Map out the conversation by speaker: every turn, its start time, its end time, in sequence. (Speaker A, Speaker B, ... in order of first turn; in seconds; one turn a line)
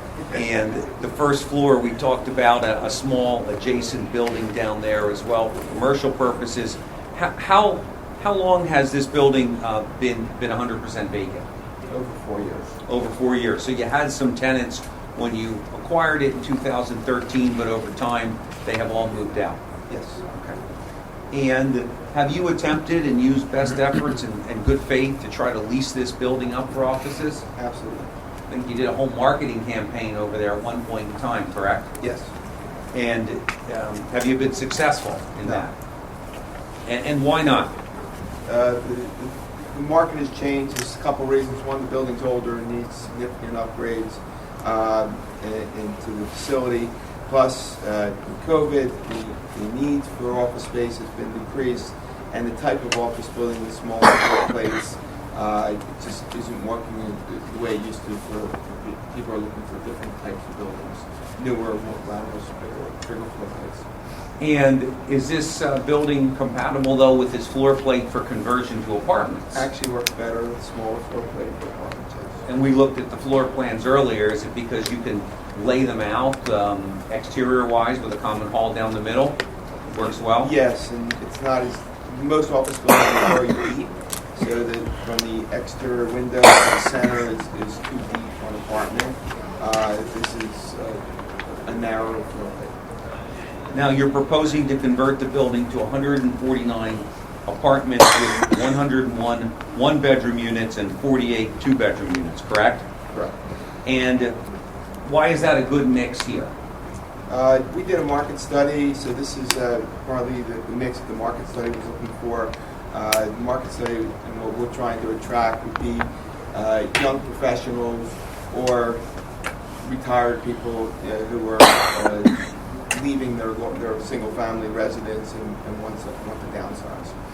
Speaker A: 0.3-11.5
Speaker B: 11.9-12.7
Speaker A: 12.9-19.6
Speaker B: 19.9-20.2
Speaker A: 20.3-20.6
Speaker A: 21.3-27.4
Speaker B: 27.6-28.1
Speaker A: 28.5-31.9
Speaker B: 32.0-32.3
Speaker A: 32.9-35.7
Speaker A: 36.9-37.7
Speaker B: 38.5-63.9
Speaker A: 64.4-69.7
Speaker B: 69.5-72.4
Speaker A: 72.5-79.4
Speaker A: 79.9-80.5
Speaker B: 80.4-91.0
Speaker B: 91.7-92.7
Speaker A: 93.7-102.9
Speaker A: 103.8-104.3
Speaker A: 105.0-106.5
Speaker B: 107.3-119.0
Speaker B: 119.8-122.3
Speaker B: 122.9-127.1